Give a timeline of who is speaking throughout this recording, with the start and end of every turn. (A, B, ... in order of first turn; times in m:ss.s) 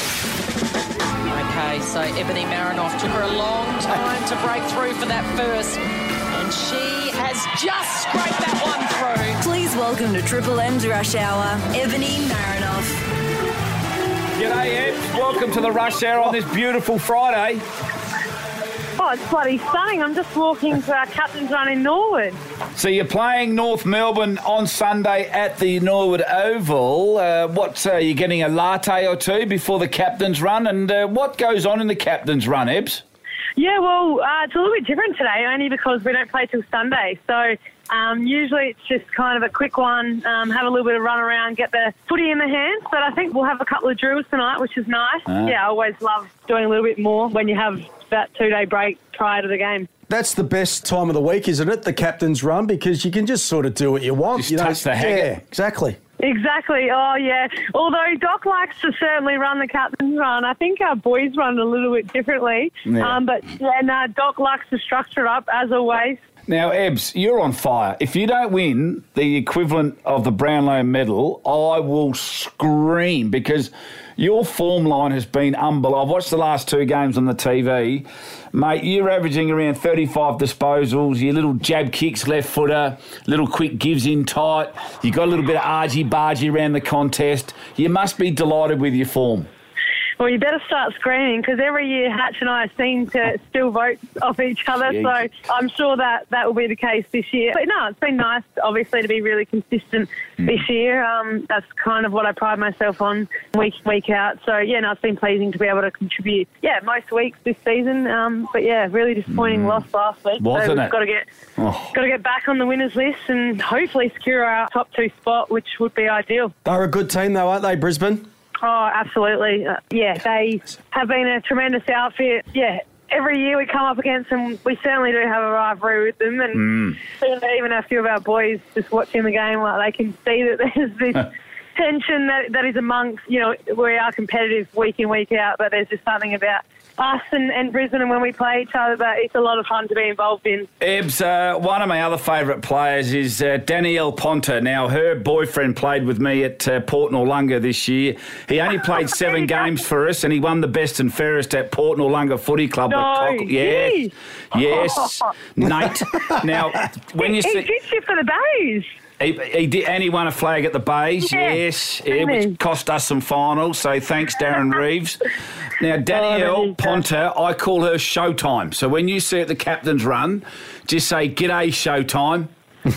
0:01.3-0:05.8 A
0:06.3-0:09.4 A
0:09.4-0:13.0 B
0:14.4-0:17.6 C
0:19.0-0:22.4 D
0:22.8-0:33.0 C
0:33.6-0:49.9 D
0:45.2-0:45.6 C
0:50.1-0:56.0 E
0:54.4-0:55.4 C
0:56.2-1:06.2 D
1:02.9-1:03.2 C
1:06.5-1:29.5 C
1:30.2-1:51.2 D
1:34.9-1:35.2 C
1:49.3-1:49.8 C
1:50.4-1:51.0 C
1:51.6-1:51.9 C
1:51.9-1:56.5 D
1:56.6-1:58.3 E
1:58.6-2:20.7 D
2:06.5-2:07.0 C
2:20.8-2:37.7 C
2:29.2-2:29.6 D
2:32.9-2:34.1 D
2:37.2-2:38.9 D
2:39.2-2:45.2 C
2:41.2-2:42.6 D
2:45.8-2:52.5 C
2:46.1-2:47.0 D